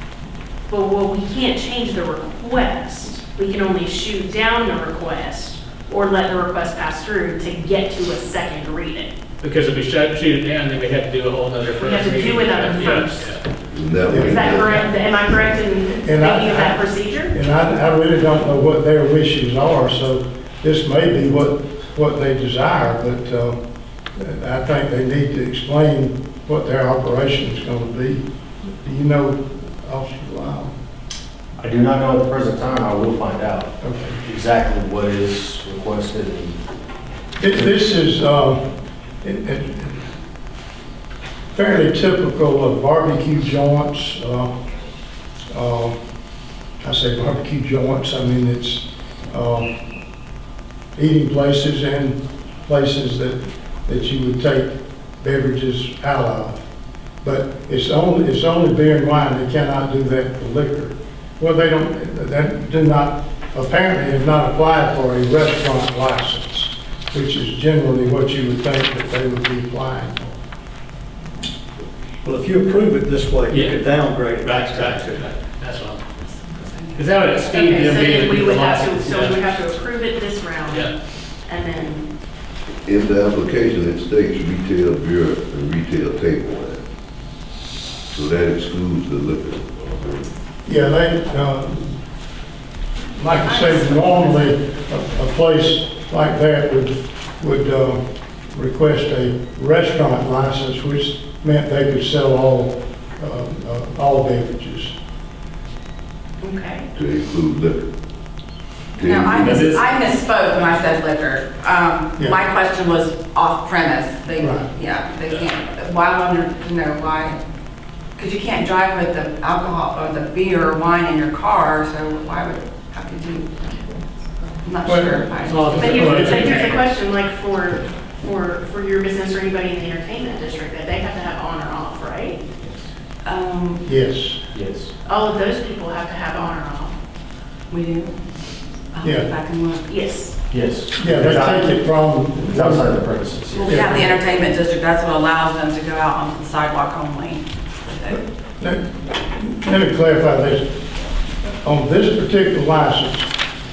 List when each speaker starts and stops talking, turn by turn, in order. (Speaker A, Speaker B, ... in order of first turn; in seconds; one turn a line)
Speaker A: 0.7-9.1
Speaker B: 9.4-13.4
Speaker A: 11.8-13.4
Speaker C: 13.7-14.8
Speaker D: 14.1-14.4
Speaker A: 14.1-17.3
Speaker B: 14.5-14.8
Speaker D: 15.9-23.6
Speaker D: 24.1-30.8
Speaker E: 31.6-36.5
Speaker D: 33.8-34.2
Speaker D: 37.4-38.7
Speaker D: 39.2-40.0
Speaker D: 41.5-44.5
Speaker D: 45.5-46.0
Speaker D: 46.8-49.7
Speaker D: 51.0-56.6
Speaker D: 57.2-70.3
Speaker F: 72.2-75.3
Speaker B: 73.5-73.8
Speaker B: 74.4-76.0
Speaker G: 76.2-78.0
Speaker B: 76.9-79.5
Speaker A: 77.5-80.9
Speaker A: 81.4-82.1
Speaker C: 82.8-86.8
Speaker C: 88.1-90.3
Speaker D: 90.6-92.0
Speaker D: 93.1-104.9
Speaker G: 93.4-94.5
Speaker A: 106.4-106.9
Speaker C: 106.9-107.8
Speaker C: 109.0-109.6
Speaker G: 109.0-117.4
Speaker B: 109.3-109.8
Speaker D: 114.4-114.7
Speaker G: 118.2-124.0
Speaker G: 124.6-126.3
Speaker D: 124.8-125.2
Speaker B: 125.4-126.8
Speaker A: 125.8-132.4
Speaker D: 125.8-126.7
Speaker G: 133.2-133.8
Speaker D: 133.8-134.4
Speaker E: 134.5-134.9
Speaker A: 135.0-136.9
Speaker G: 137.7-138.1
Speaker G: 138.9-139.8
Speaker D: 139.0-139.3
Speaker A: 139.9-140.3
Speaker E: 140.5-141.6
Speaker D: 140.9-143.0
Speaker C: 141.0-141.3
Speaker E: 142.5-143.9
Speaker D: 143.6-144.2
Speaker G: 143.7-148.2
Speaker D: 148.6-150.7
Speaker D: 151.6-153.3